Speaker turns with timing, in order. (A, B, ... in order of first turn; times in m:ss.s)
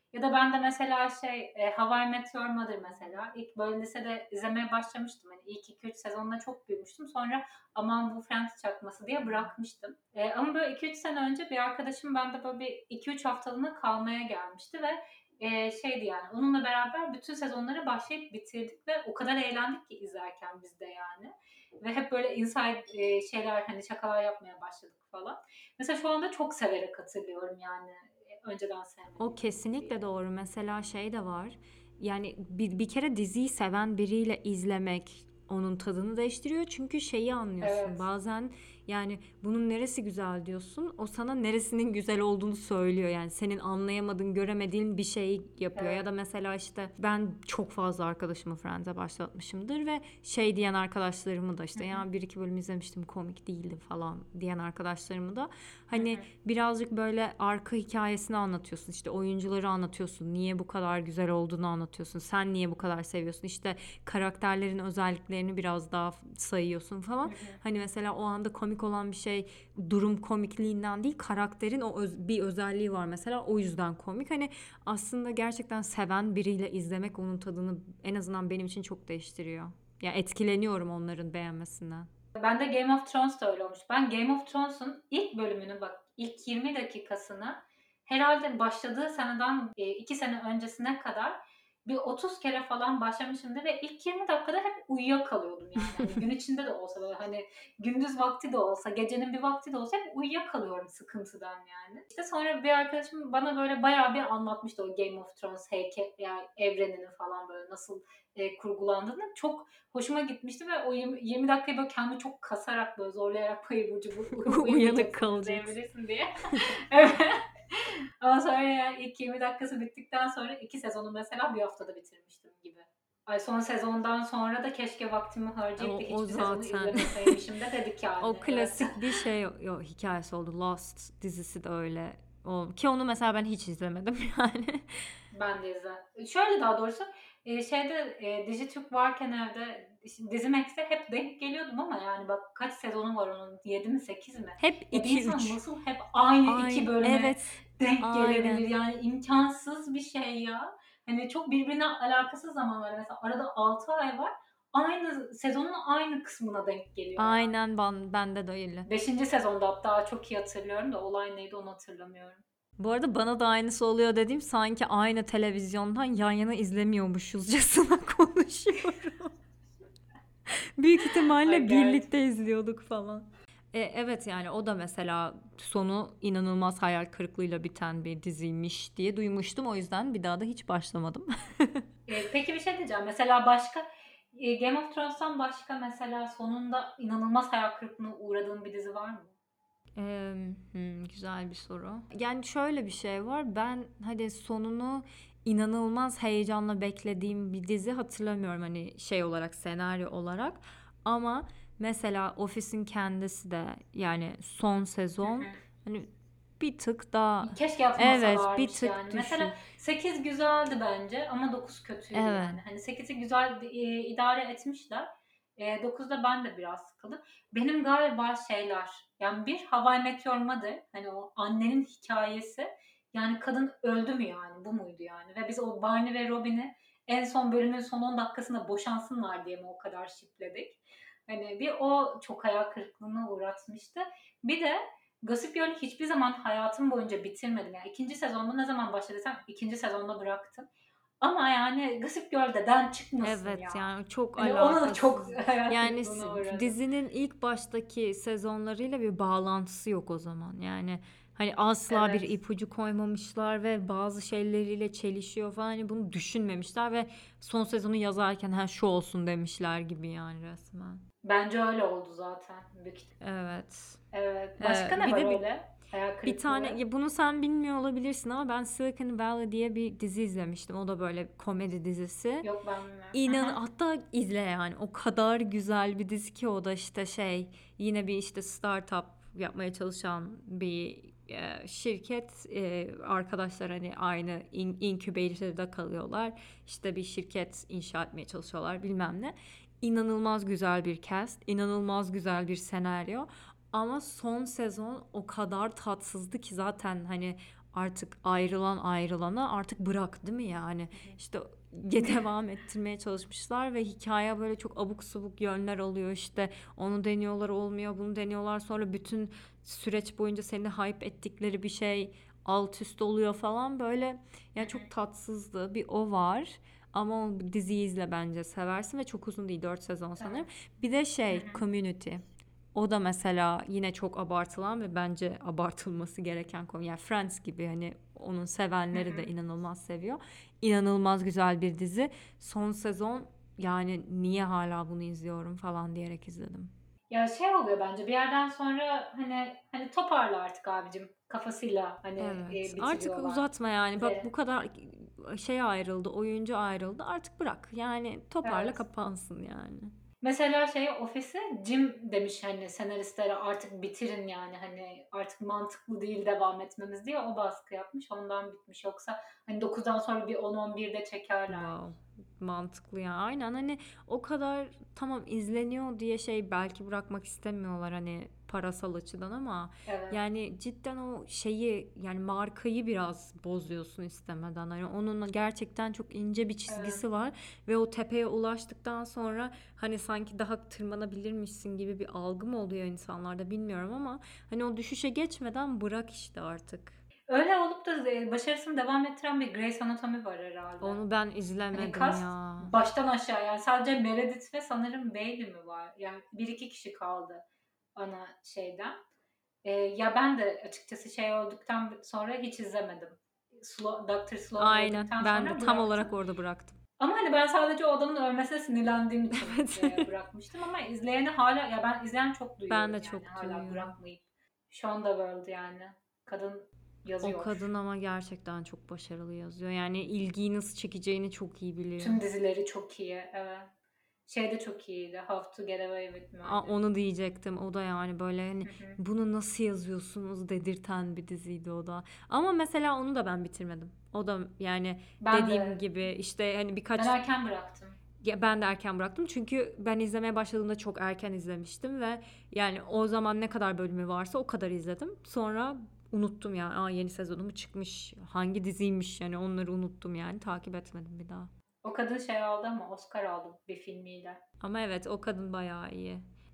0:00.1-0:29.9 A
0:29.2-1:22.1 B
0:37.6-0:38.1 A
0:45.7-0:46.0 A
0:51.8-0:52.0 A
0:55.9-0:56.2 A
1:07.2-1:07.6 A
1:22.4-2:09.0 A
1:54.3-1:55.7 B
2:05.8-2:07.4 B
2:08.2-2:15.1 B
2:15.3-2:37.5 A
2:24.6-2:25.6 B
2:26.4-2:28.7 B
2:37.2-2:38.9 B
2:38.9-2:42.4 A
2:42.8-2:49.4 B
2:50.5-3:01.8 B
2:51.4-2:52.0 A
3:02.1-3:09.3 A
3:10.0-3:29.6 B
3:25.2-3:25.5 A
3:27.4-4:00.7 A
3:32.1-3:32.6 B
4:01.2-4:03.8 A
4:03.2-4:21.0 B
4:04.4-4:06.7 A
4:11.9-4:12.2 A
4:21.2-4:23.1 A
4:23.2-4:24.0 B
4:24.1-4:26.8 A
4:24.6-4:25.4 B
4:26.2-4:32.5 B
4:32.4-4:33.6 A
4:33.1-5:36.7 B
5:14.6-5:14.8 A
5:20.2-5:20.4 A
5:21.3-5:21.6 A
5:28.9-5:29.3 A
5:37.1-5:43.4 A
5:42.2-5:49.9 B
5:44.0-5:44.3 A
5:48.4-5:48.8 A
5:50.2-6:01.7 A
6:01.5-6:27.0 B
6:09.8-6:10.2 A
6:16.7-6:17.0 A
6:27.3-6:31.0 A
6:30.8-6:32.7 B
6:31.7-6:37.4 A
6:38.0-6:39.0 A
6:39.6-6:46.1 A
6:44.6-6:46.8 B
6:47.0-6:57.6 A
6:49.3-6:50.1 B
6:52.7-6:53.9 B
6:57.2-7:02.2 B
7:02.0-7:03.7 A
7:04.3-7:06.7 A
7:06.4-7:17.2 B
7:08.6-7:09.0 A
7:15.2-7:15.8 A
7:17.0-7:18.0 A
7:18.2-7:31.5 B
7:31.8-7:34.4 A
7:34.6-7:36.2 B